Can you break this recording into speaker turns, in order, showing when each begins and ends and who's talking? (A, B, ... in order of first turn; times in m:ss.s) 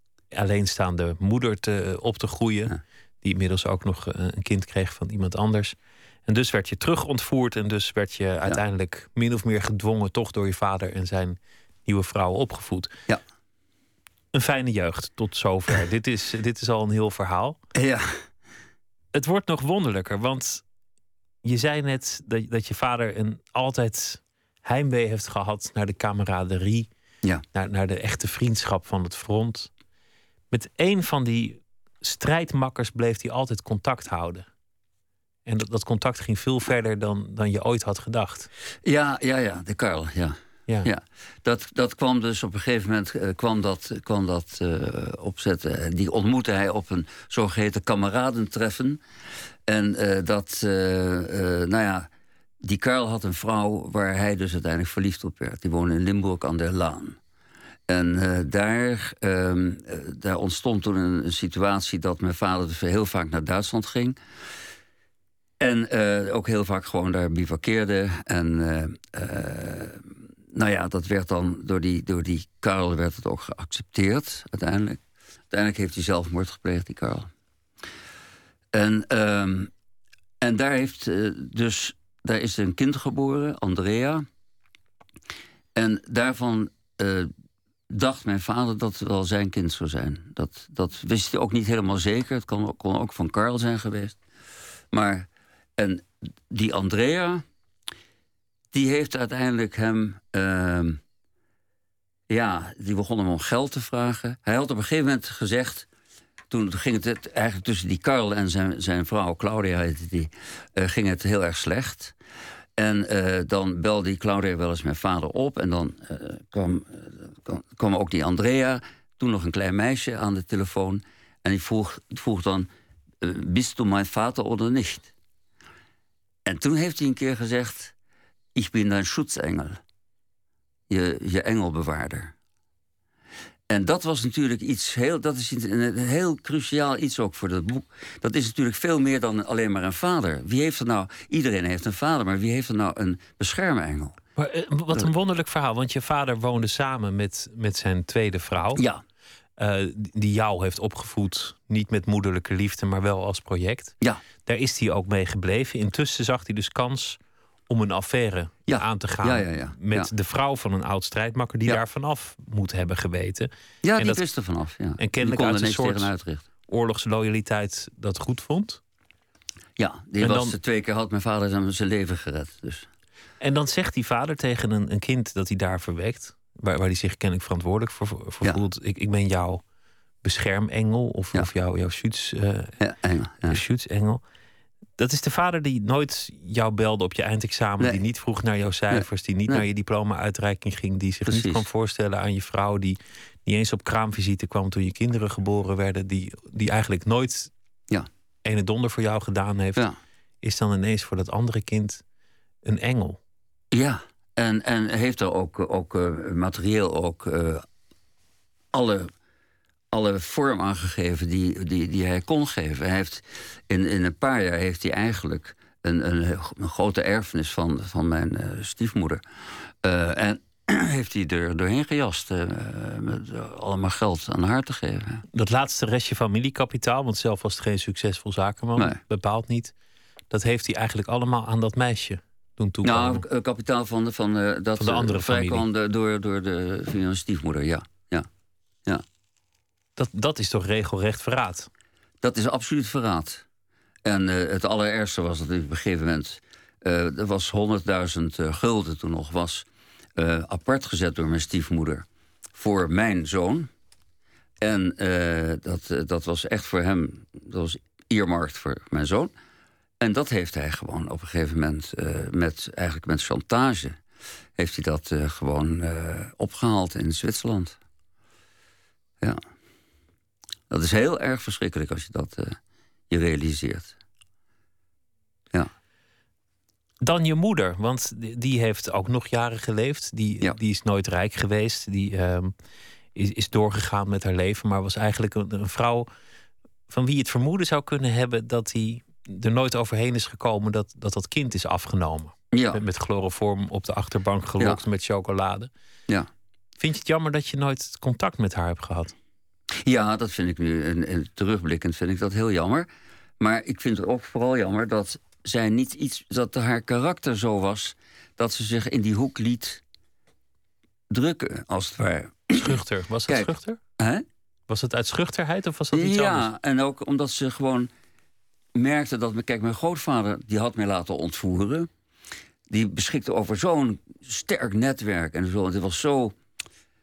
0:00.3-0:12.9 A
0:14.3-0:17.6 A
0:17.7-0:18.2 B
0:19.1-0:20.6 A
0:21.4-0:26.9 A
0:27.5-0:29.7 A
0:30.5-0:34.5 A
0:35.4-0:38.5 A
0:38.8-0:49.0 B
0:49.7-0:52.1 B
0:52.6-0:57.2 B
0:57.9-1:04.2 B
1:05.6-1:15.0 B
1:15.5-1:17.3 B
1:18.7-1:19.7 B
1:20.4-1:24.2 B
1:25.8-1:27.3 B
1:27.9-1:34.2 B
1:34.9-1:37.4 B
1:38.7-1:41.0 B
1:42.3-1:45.9 B
1:46.5-1:52.1 B
1:52.8-2:02.7 B
2:03.2-2:05.1 B
2:06.4-2:07.9 B
2:08.6-2:09.8 B
2:10.9-2:12.3 B
2:13.7-2:24.2 B
2:24.4-2:28.8 A
2:28.8-2:29.0 B
2:29.6-2:33.9 A
2:34.4-2:37.2 A
2:37.7-2:44.2 A
2:38.7-2:40.1 B
2:43.8-2:46.5 B
2:45.0-2:46.1 A
2:46.7-2:48.8 A
2:49.8-2:52.9 B
2:50.2-2:50.6 A
2:53.4-2:59.6 A
3:00.2-3:02.7 A
3:02.8-3:03.6 B
3:03.4-3:04.2 A
3:05.0-3:17.5 A
3:08.9-3:09.6 B
3:11.3-3:11.6 B
3:18.4-3:19.8 A
3:20.4-3:22.0 A
3:22.6-3:23.2 A
3:23.7-3:27.6 B
3:28.7-3:29.1 B
3:29.9-3:39.2 B
3:39.8-3:45.2 B
3:45.3-3:49.7 A
3:50.3-3:53.2 A
3:52.8-3:58.3 B
3:54.8-3:55.6 A
4:00.0-4:01.7 A
4:02.2-4:03.4 B
4:04.0-4:09.6 B
4:10.2-4:12.0 B
4:12.6-4:13.7 B
4:14.6-4:19.3 B
4:20.0-4:24.0 B
4:24.6-4:27.8 B
4:30.7-4:32.6 B
4:33.1-4:34.0 B
4:37.0-4:42.5 A
4:43.1-4:46.1 A
4:46.9-4:55.7 A
4:52.5-4:52.8 B
4:56.8-4:59.1 A
4:59.8-5:02.9 B
5:03.4-5:09.8 B
5:11.1-5:14.2 B
5:12.6-5:13.8 A
5:14.7-5:16.5 A
5:15.9-5:17.9 B
5:18.8-5:21.9 B
5:22.7-5:26.4 B